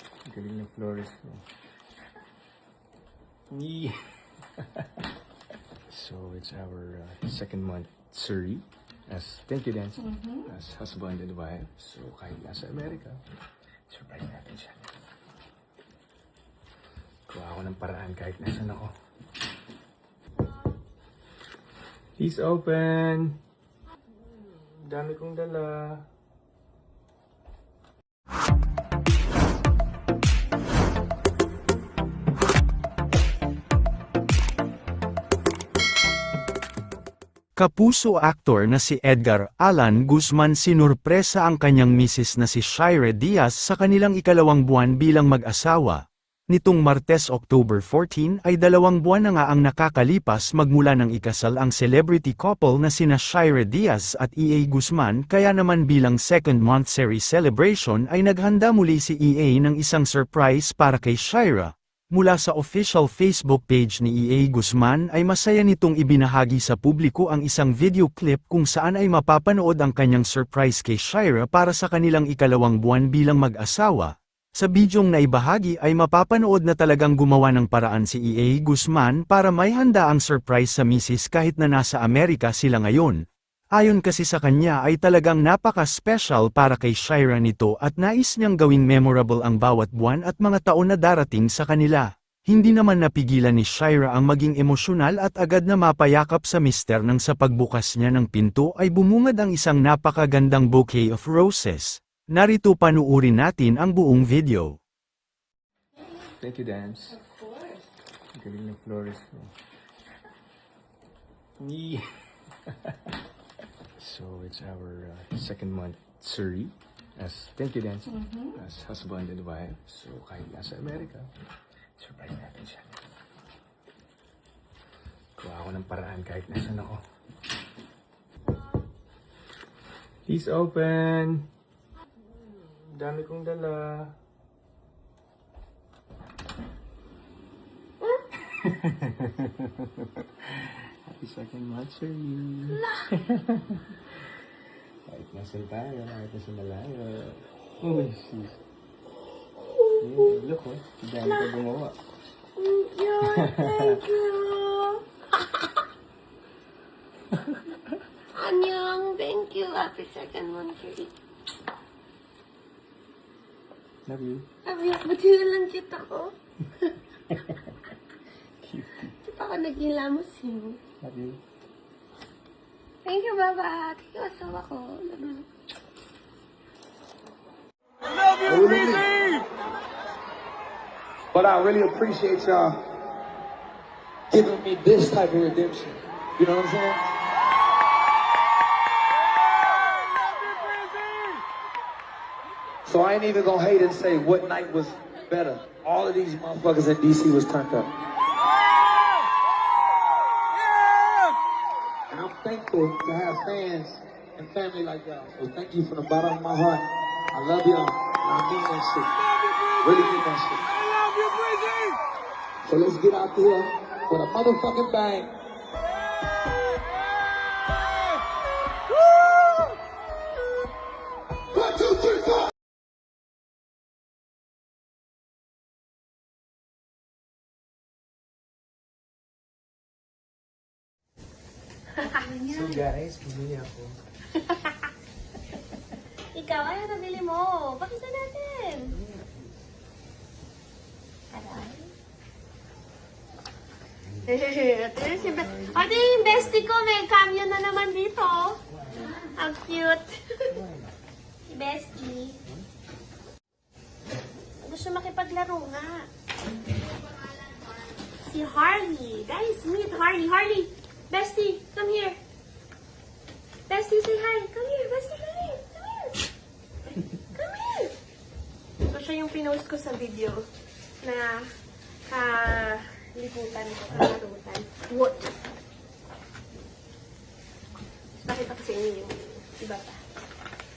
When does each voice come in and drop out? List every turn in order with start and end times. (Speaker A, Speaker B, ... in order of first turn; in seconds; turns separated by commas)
Speaker A: 0.2-1.4, Speaker A: 3.5-3.9, Speaker A: 5.9-13.2, Speaker A: 13.9-14.9, Speaker A: 17.3-18.9, Speaker A: 22.2-23.4, Speaker A: 24.8-26.0, Speaker B: 37.5-46.0, Speaker B: 46.5-83.2, Speaker B: 83.8-104.7, Speaker A: 106.2-107.3, Speaker C: 107.3-107.9, Speaker A: 108.3-109.5, Speaker A: 111.6-112.0, Speaker A: 112.7-112.9, Speaker A: 114.0-121.3, Speaker A: 122.0-123.0, Speaker A: 125.3-127.0, Speaker A: 130.3-131.4, Speaker A: 132.9-134.1, Speaker A: 138.5-144.0, Speaker C: 142.7-143.1, Speaker A: 145.1-148.6, Speaker C: 149.6-150.3, Speaker A: 150.0-152.0, Speaker C: 151.2-151.6, Speaker C: 152.6-155.0, Speaker A: 153.2-154.0, Speaker C: 158.3-161.1, Speaker A: 164.1-164.5, Speaker C: 164.6-166.3, Speaker A: 168.6-169.2, Speaker C: 169.2-170.8, Speaker A: 171.0-171.4, Speaker C: 173.0-175.5, Speaker D: 178.4-179.3, Speaker D: 181.3-182.8, Speaker D: 184.3-187.1, Speaker D: 192.8-197.9, Speaker D: 202.1-210.7, Speaker D: 211.2-211.5, Speaker D: 212.6-215.3, Speaker D: 221.5-222.5, Speaker C: 232.0-232.7, Speaker A: 232.4-233.9, Speaker C: 236.3-239.0, Speaker C: 241.3-241.9, Speaker C: 244.2-250.6, Speaker A: 245.4-246.5, Speaker C: 251.5-252.4, Speaker C: 254.6-256.1, Speaker C: 258.2-262.2, Speaker C: 263.7-266.3, Speaker C: 267.2-267.9, Speaker C: 268.8-270.5, Speaker C: 271.0-271.5, Speaker C: 272.1-275.3, Speaker C: 278.2-280.0